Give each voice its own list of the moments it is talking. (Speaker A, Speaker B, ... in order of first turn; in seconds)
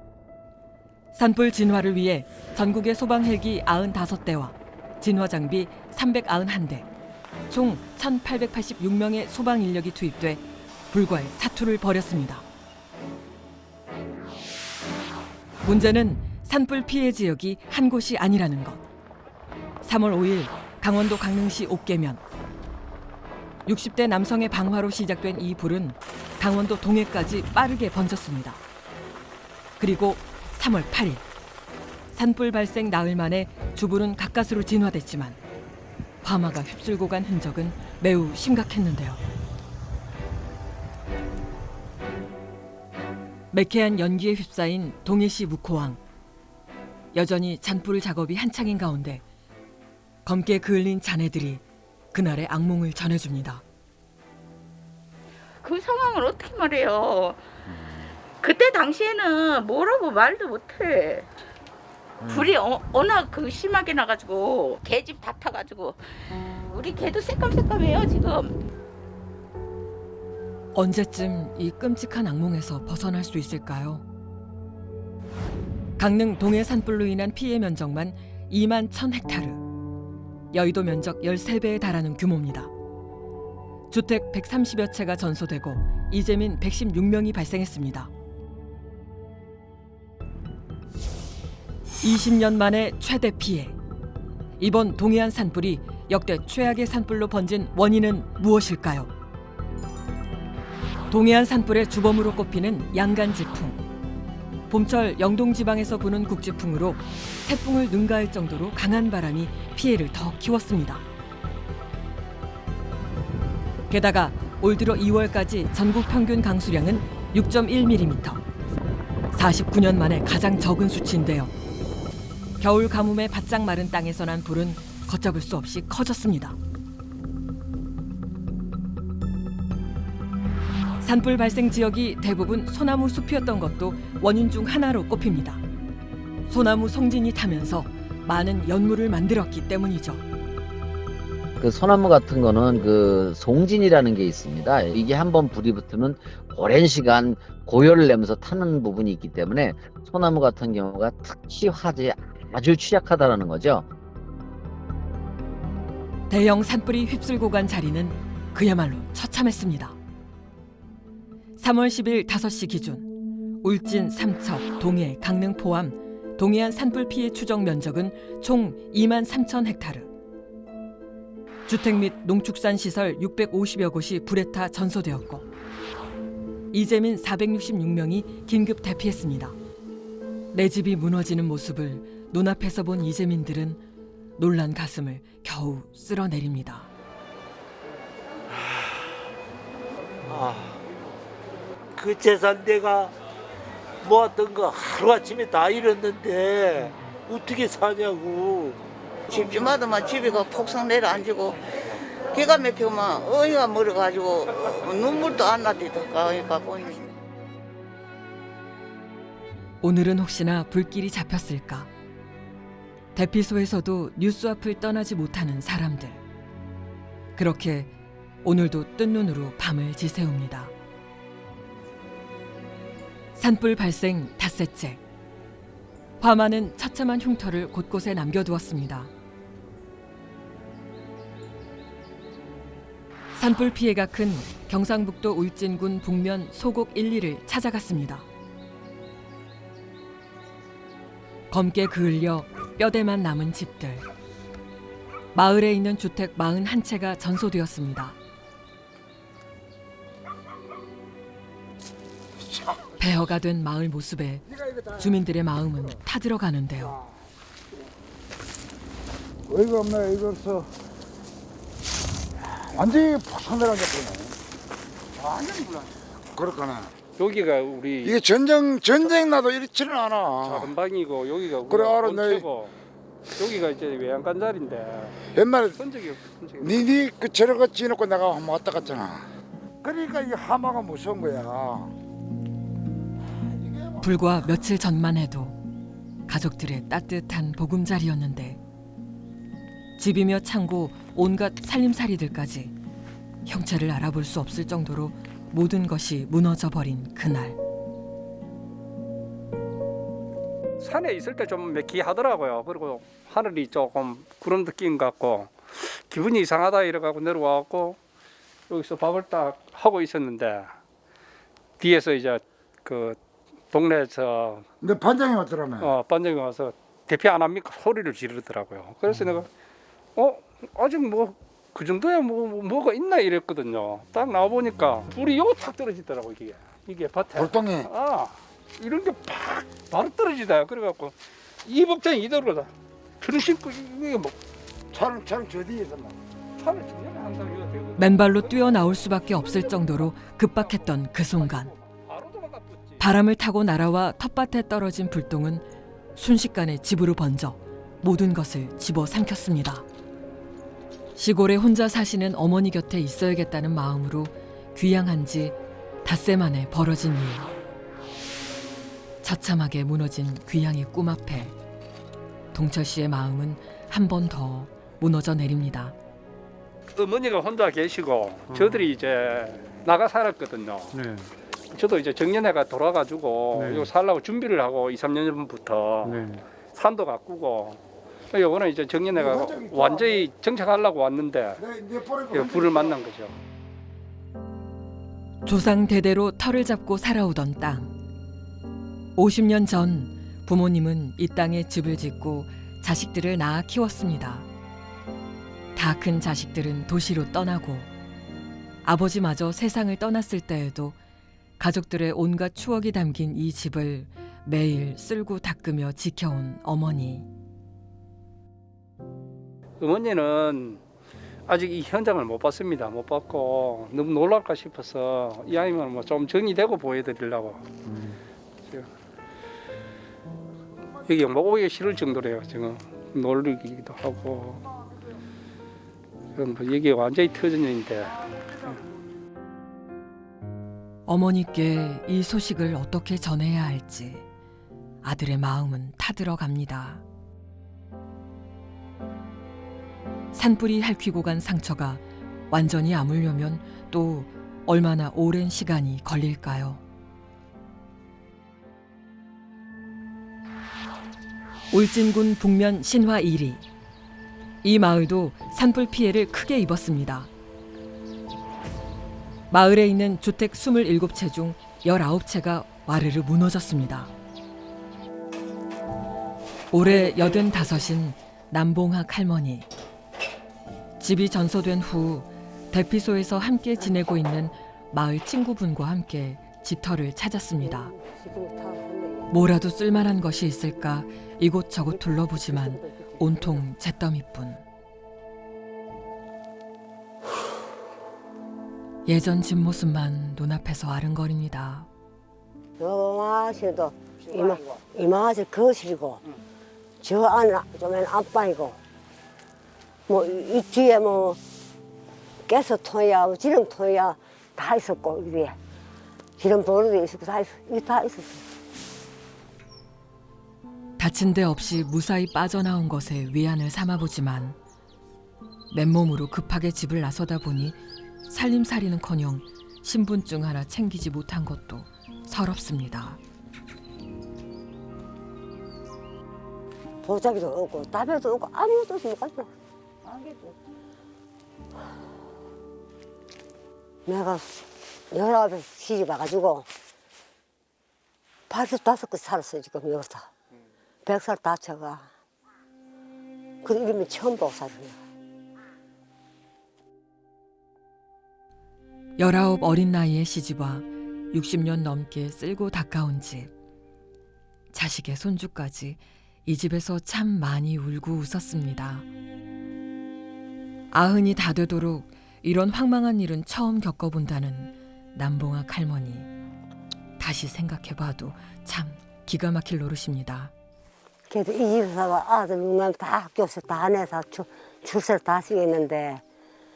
Speaker A: 1.1-6.9, 7.5-12.4, 15.6-18.8, 19.8-22.2, 23.6-28.6, 29.8-31.2, 32.1-35.4, 36.2-39.2, 43.5-46.0, 47.1-49.2, 50.2-51.6, 52.1-53.6, 70.7-74.0, 76.0-79.6, 80.5-82.7, 83.9-88.1, 92.0-93.8, 94.6-99.1, 101.1-103.8, 104.7-111.0, 113.9-118.4, 119.3-121.5, 122.6-126.5, 131.0-135.6, 136.5-140.2, 156.3-159.9, 161.6-170.1, 171.7-175.4, 176.7-179.6, 180.5-183.8, 184.4-186.9, 209.8-211.9, 213.1-216.2, 217.3-217.9, 218.4-220.7, 223.3-225.0, 226.2-229.1, 233.3-238.2, 241.5-244.0, 245.3-248.2, 253.0-257.0, 284.0-285.6, 286.3-288.6, 290.0-292.7, 293.4-297.6, 338.0-341.7, 343.0-345.6, 346.1-349.8, 351.2-357.5, 359.2-361.5, 362.5-365.9, 385.4-387.9, 389.1-394.5, 395.8-397.9, 398.8-401.0, 401.6-407.3, 431.1-434.2, 435.0-437.0, 440.3-446.8, 451.7-453.6, 454.6-457.3, 459.5-464.1, 466.7-469.7, 471.0-477.9, 479.3-484.6, 489.1-491.9, 511.0-514.5, 515.7-523.2, 549.2-553.5, 554.7-559.0, 560.9-566.3, 567.2-570.5
Speaker B: 55.6-57.4, 58.4-61.3, 62.2-68.6
Speaker C: 141.6-153.8
Speaker D: 188.5-189.1, 190.2-190.8, 191.9-193.1, 194.0-198.8
Speaker E: 199.3-201.6, 202.3-207.1
Speaker F: 254.5-255.1, 259.5-260.7, 262.7-264.4, 265.2-265.8, 266.3-266.9, 268.0-270.7, 271.7-272.4, 275.3-275.8, 276.6-279.3, 279.8-281.9, 283.4-284.0, 314.8-315.9, 327.4-327.9, 334.9-336.2, 379.1-380.2, 381.6-382.9
Speaker G: 267.2-268.2, 270.4-272.7, 273.4-276.9, 300.8-308.0, 308.7-310.8, 311.8-313.2, 313.7-314.6, 315.8-319.5, 320.1-334.4, 336.6-343.1, 366.9-371.0, 371.7-381.6, 382.3-383.4, 409.8-410.8, 411.5-417.7, 421.0-424.6, 426.3-428.8
Speaker H: 466.9-467.3, 477.6-479.3, 481.9-483.6, 492.8-496.2, 497.0-498.8, 500.1-501.4, 502.5-505.6, 506.4-508.4, 527.0-529.5, 530.0-530.5, 534.0-534.5, 535.1-536.7, 538.5-540.3, 541.0-542.1, 543.6-545.0, 571.3-576.2